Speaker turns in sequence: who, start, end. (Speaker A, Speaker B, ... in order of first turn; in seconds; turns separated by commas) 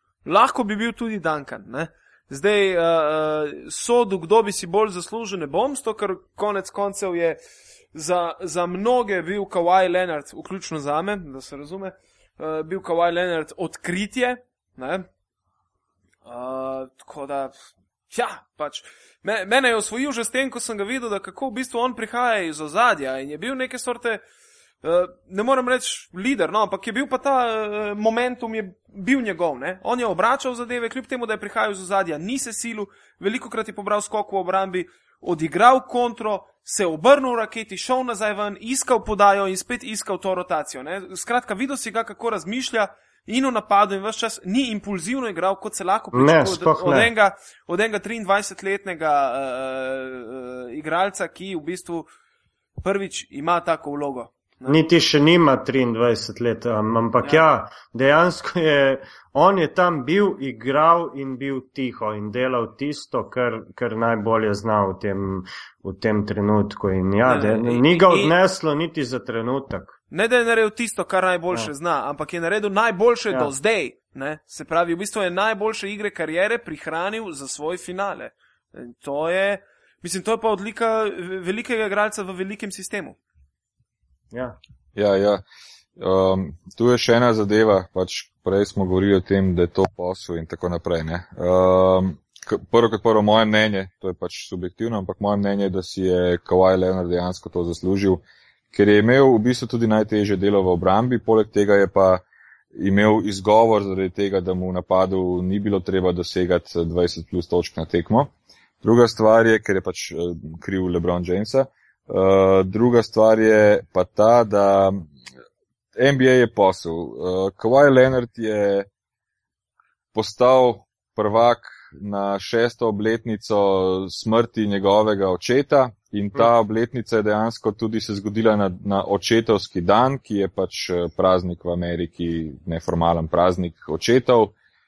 Speaker A: 0.2-7.4, Speaker A: 7.9-15.1, Speaker A: 16.2-17.5, Speaker A: 18.1-24.2, Speaker A: 24.8-52.1, Speaker B: 46.1-47.1, Speaker A: 52.8-54.8, Speaker B: 54.7-70.0, Speaker A: 67.2-68.3, Speaker A: 70.1-83.2, Speaker C: 85.0-85.4, Speaker C: 86.0-115.1, Speaker C: 116.0-118.9, Speaker C: 120.1-134.5